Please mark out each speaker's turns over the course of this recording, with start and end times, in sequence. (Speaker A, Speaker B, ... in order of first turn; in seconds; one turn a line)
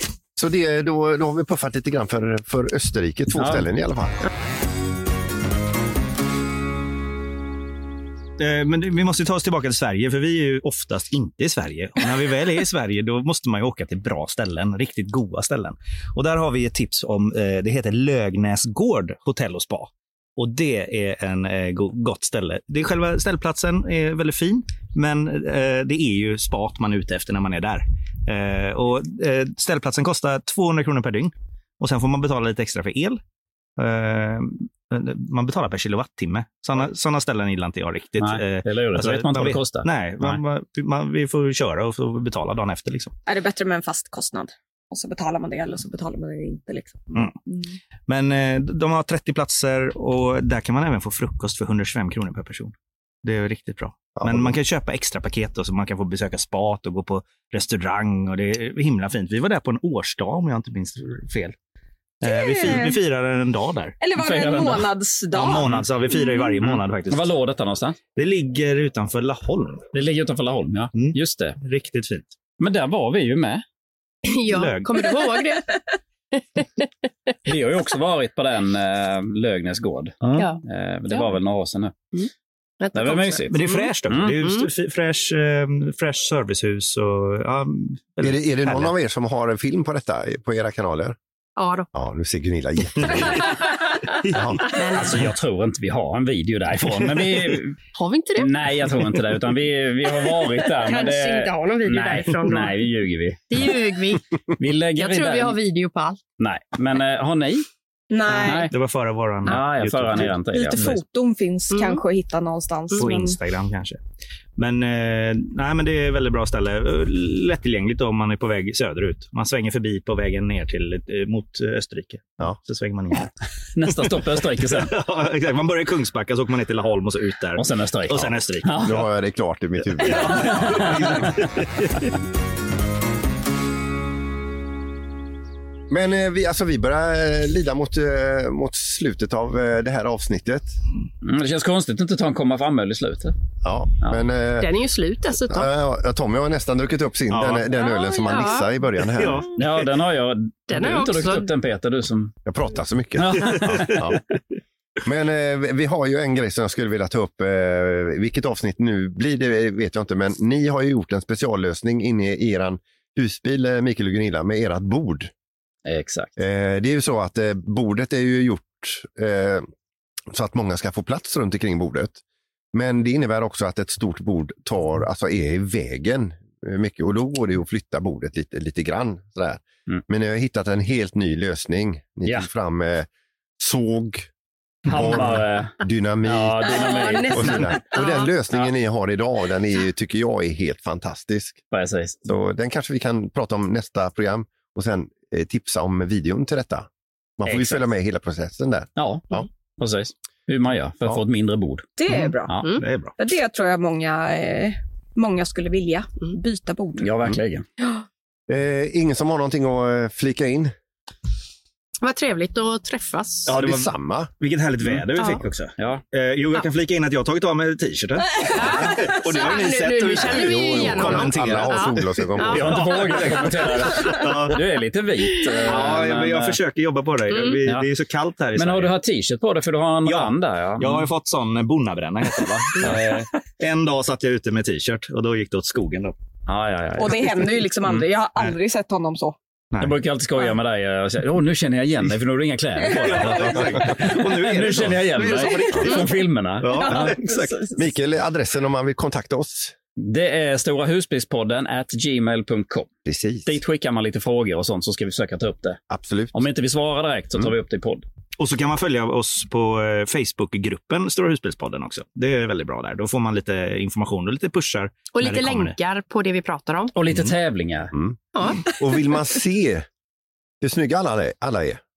Speaker A: 0.3-4.2
Speaker B: 3.4-3.6
Speaker C: 8.4-33.2
Speaker C: 33.8-43.1
Speaker B: 38.2-40.4
Speaker D: 43.2-47.8
Speaker C: 48.1-61.5
Speaker A: 54.1-54.5
Speaker C: 62.2-63.9
Speaker D: 62.2-63.0
Speaker D: 64.0-66.5
Speaker B: 64.1-64.9
Speaker C: 65.3-67.3
Speaker B: 66.7-68.0
Speaker C: 68.2-69.9
Speaker B: 69.9-71.6
Speaker C: 70.9-72.3
Speaker B: 72.6-73.6
Speaker E: 74.3-75.8
Speaker C: 74.5-75.1
Speaker E: 76.4-76.9
Speaker B: 77.5-82.0
Speaker C: 80.2-80.5
Speaker E: 80.4-81.3
Speaker E: 82.8-83.9
Speaker B: 82.9-83.5
Speaker C: 83.5-88.8
Speaker B: 84.1-84.3
Speaker E: 84.4-84.7
Speaker A: 88.2-91.2
Speaker E: 91.6-91.9
Speaker A: 91.9-93.5
Speaker E: 93.4-93.9
Speaker A: 94.3-94.6
Speaker E: 94.6-95.2
Speaker B: 94.9-97.8
Speaker E: 97.9-99.2
Speaker B: 98.4-103.4
Speaker E: 100.6-102.9
Speaker E: 103.5-104.3
Speaker B: 104.6-105.5
Speaker E: 105.0-106.2
Speaker B: 106.4-107.6
Speaker D: 108.1-108.7
Speaker B: 108.3-108.7
Speaker C: 108.4-110.8
Speaker B: 109.4-111.0
Speaker D: 110.2-113.4
Speaker E: 111.7-112.0
Speaker C: 113.0-114.0
Speaker C: 114.6-123.3
Speaker B: 123.8-124.9
Speaker C: 123.9-128.8
Speaker B: 127.6-129.0
Speaker A: 128.8-130.6
Speaker C: 130.0-132.1
Speaker B: 130.6-130.9
Speaker A: 135.9-140.7
Speaker B: 141.2-143.3
Speaker A: 143.6-144.7
Speaker E: 144.6-145.7
Speaker A: 145.5-149.5
Speaker C: 147.3-147.7
Speaker E: 147.8-148.7
Speaker C: 149.1-149.5
Speaker B: 149.6-152.3
Speaker E: 150.7-151.5
Speaker A: 152.4-154.2
Speaker B: 153.2-154.0
Speaker C: 153.4-154.2
Speaker A: 155.0-165.3
Speaker B: 165.8-166.3
Speaker A: 166.4-169.7
Speaker A: 170.3-172.2
Speaker A: 172.7-183.1
Speaker A: 183.6-184.3
Speaker B: 184.9-187.8
Speaker A: 184.9-191.6
Speaker E: 186.7-188.3
Speaker B: 191.7-192.2
Speaker A: 192.2-199.4
Speaker C: 197.4-197.8
Speaker B: 199.0-201.9
Speaker D: 202.0-202.6
Speaker C: 202.1-203.1
Speaker D: 203.2-207.1
Speaker B: 207.0-207.6
Speaker A: 208.5-210.7
Speaker E: 212.0-213.6
Speaker C: 213.5-221.9
Speaker A: 213.5-214.3
Speaker E: 215.2-215.4
Speaker E: 218.4-222.7
Speaker A: 220.3-222.9
Speaker C: 222.5-224.6
Speaker B: 222.5-226.6
Speaker C: 225.7-228.9
Speaker E: 227.3-227.6
Speaker B: 228.6-231.1
Speaker C: 230.1-236.1
Speaker B: 232.8-233.2
Speaker B: 236.5-237.3
Speaker D: 236.9-239.3
Speaker B: 239.8-247.1
Speaker C: 242.8-246.1
Speaker C: 246.6-247.7
Speaker D: 246.7-247.8
Speaker A: 247.7-249.7
Speaker B: 250.0-252.9
Speaker A: 253.1-253.5
Speaker B: 253.5-255.8
Speaker A: 255.9-256.4
Speaker B: 256.3-258.0
Speaker C: 258.4-265.7
Speaker E: 265.1-266.9
Speaker B: 266.9-267.9
Speaker A: 267.9-269.9
Speaker E: 268.3-269.1
Speaker A: 270.6-271.8